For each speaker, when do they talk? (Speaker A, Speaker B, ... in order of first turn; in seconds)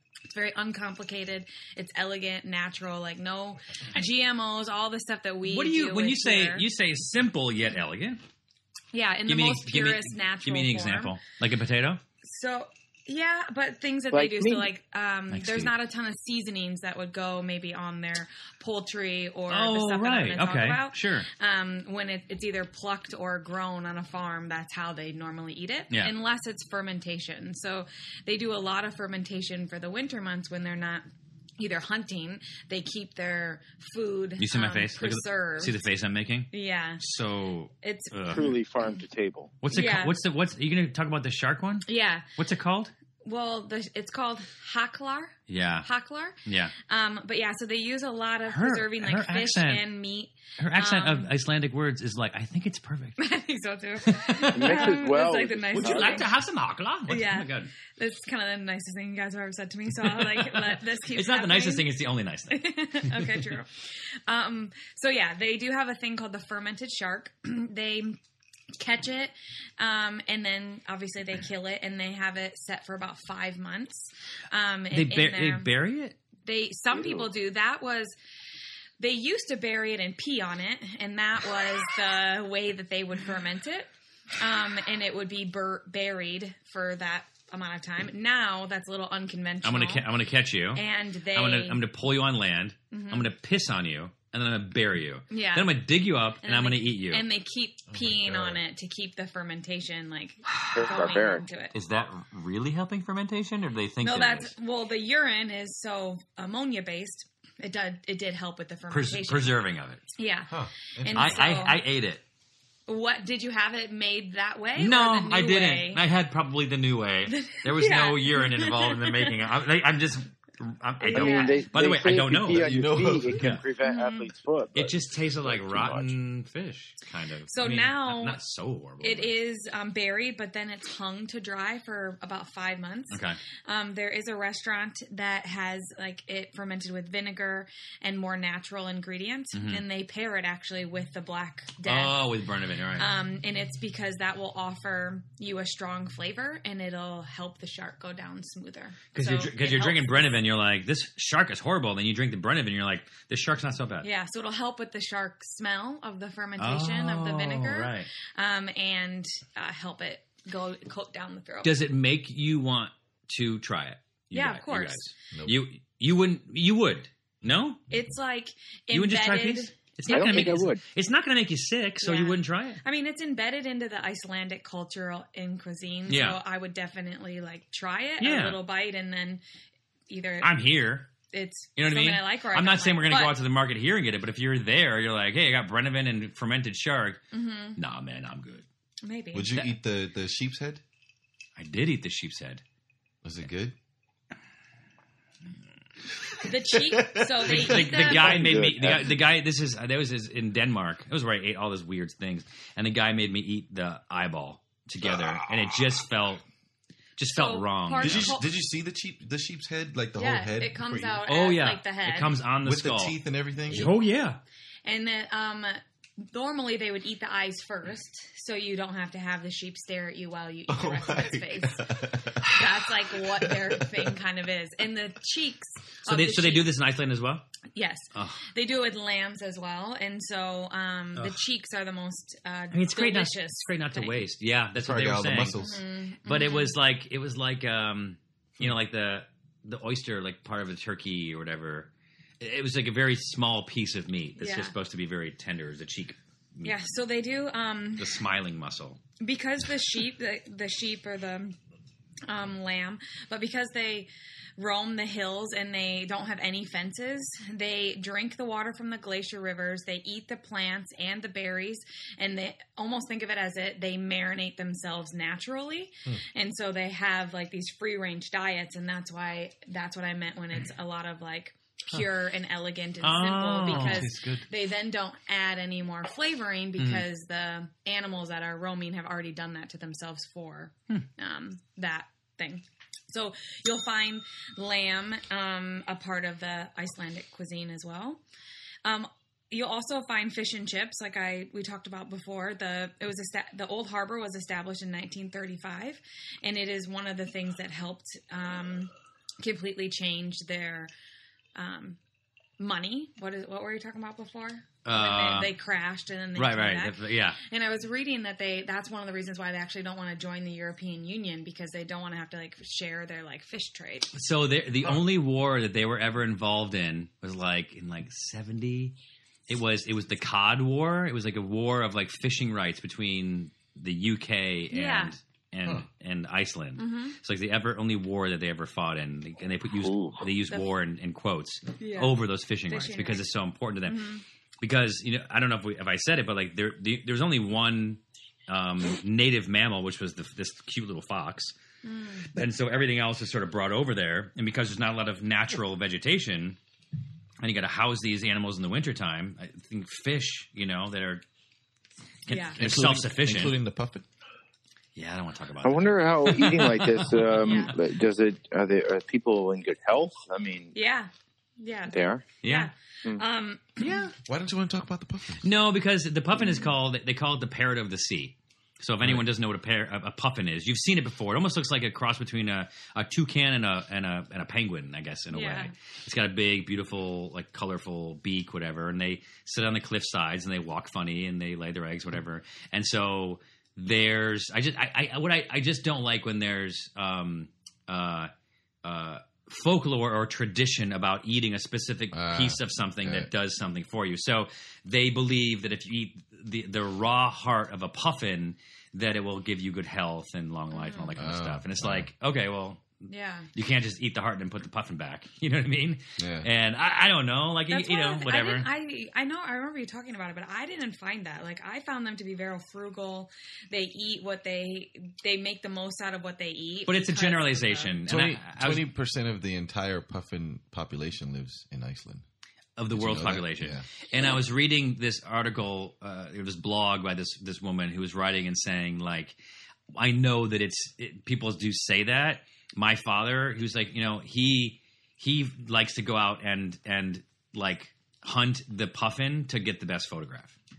Speaker A: 0.3-6.6, 8.9-11.2, 12.2-31.0, 31.6-35.8, 36.5-37.0, 37.8-38.5, 39.7-40.1, 41.9-42.3, 43.2-51.3, 53.2-56.3, 57.1-61.9, 62.5-63.7, 64.3-68.2, 68.8-75.7, 76.4-78.1, 79.0-90.0, 90.7-91.8, 92.9-93.3, 95.3-95.8, 96.4-101.7, 104.0-109.6, 110.2-111.8, 112.9-116.0, 117.3-119.3, 121.0-121.7, 123.8-124.3, 127.5-128.4, 129.0-142.2, 143.0-150.4, 154.0-161.8, 164.3-165.1, 167.9-170.7, 172.0-179.4, 180.1-180.7, 181.3-183.4, 187.3-187.8, 189.0-189.7, 196.4-198.4, 207.3-208.5, 210.2-212.4, 214.8-226.7, 227.7-234.2, 235.5-236.7, 244.4-244.7, 246.6-248.2, 249.2-251.6, 252.3-288.2, 288.8-300.9, 301.5-302.0, 302.6-314.1, 324.7-325.1, 326.8-327.2, 331.8-333.3, 333.9-334.2, 341.8-342.3, 352.3-352.6, 357.4-357.7, 360.7-364.1, 375.3-375.7, 400.7-401.1, 403.1-403.5, 407.7-418.0
Speaker B: 5.5-8.2, 9.3-12.0, 15.3-15.7, 19.5-21.3, 34.4-38.5, 39.6-42.9, 45.5-45.9, 46.5-46.7, 48.5-49.8, 50.6-53.2, 54.0-55.0, 55.7-57.7, 60.0-63.5, 74.9-76.2, 89.6-90.8, 91.3-97.2, 100.5-100.9, 101.7-104.5, 108.9-110.0, 111.1-112.2, 114.8-122.7, 123.3-123.6, 124.7-129.3, 133.1-133.4, 139.5-139.8, 141.8-143.1, 149.1-154.1, 156.6-158.1, 161.6-167.8, 168.9-172.8, 176.1-176.4, 178.2-178.6, 180.4-181.1, 181.8-187.2, 187.8-188.6, 191.6-192.6, 197.4-206.4, 207.2-208.4, 211.3-213.2, 213.7-214.4, 226.1-227.4, 228.1-228.4, 232.7-235.6, 236.2-246.7, 248.0-249.0, 273.0-274.4, 276.8-277.0, 304.8-305.5, 306.4-307.4, 314.1-318.9, 319.5-334.0, 334.6-341.5, 342.3-346.6, 347.4-351.2, 352.3-353.5, 354.9-357.6, 362.4-362.7, 363.8-364.1, 365.4-388.3, 388.8-402.9, 403.5-408.7, 416.9-418.9, 422.8-429.4, 429.9-440.5
Speaker C: 14.1-14.7, 38.3-39.5, 54.5-56.3, 76.9-77.2, 100.7-101.4, 121.1-126.1, 170.1-170.8, 197.8-199.1, 329.7-330.2, 355.6-360.7, 361.9-362.2
Speaker D: 97.9-98.6, 110.5-111.6, 122.6-123.4, 165.3-165.6, 189.3-190.8, 193.2-193.7, 196.8-197.9, 205.0-205.6, 208.0-211.2, 212.6-213.9, 220.7-224.1, 234.8-235.8, 273.7-274.4, 352.6-354.0, 364.1-365.4, 392.1-393.3, 401.2-402.1, 406.2-406.5, 418.1-422.2, 422.9-423.9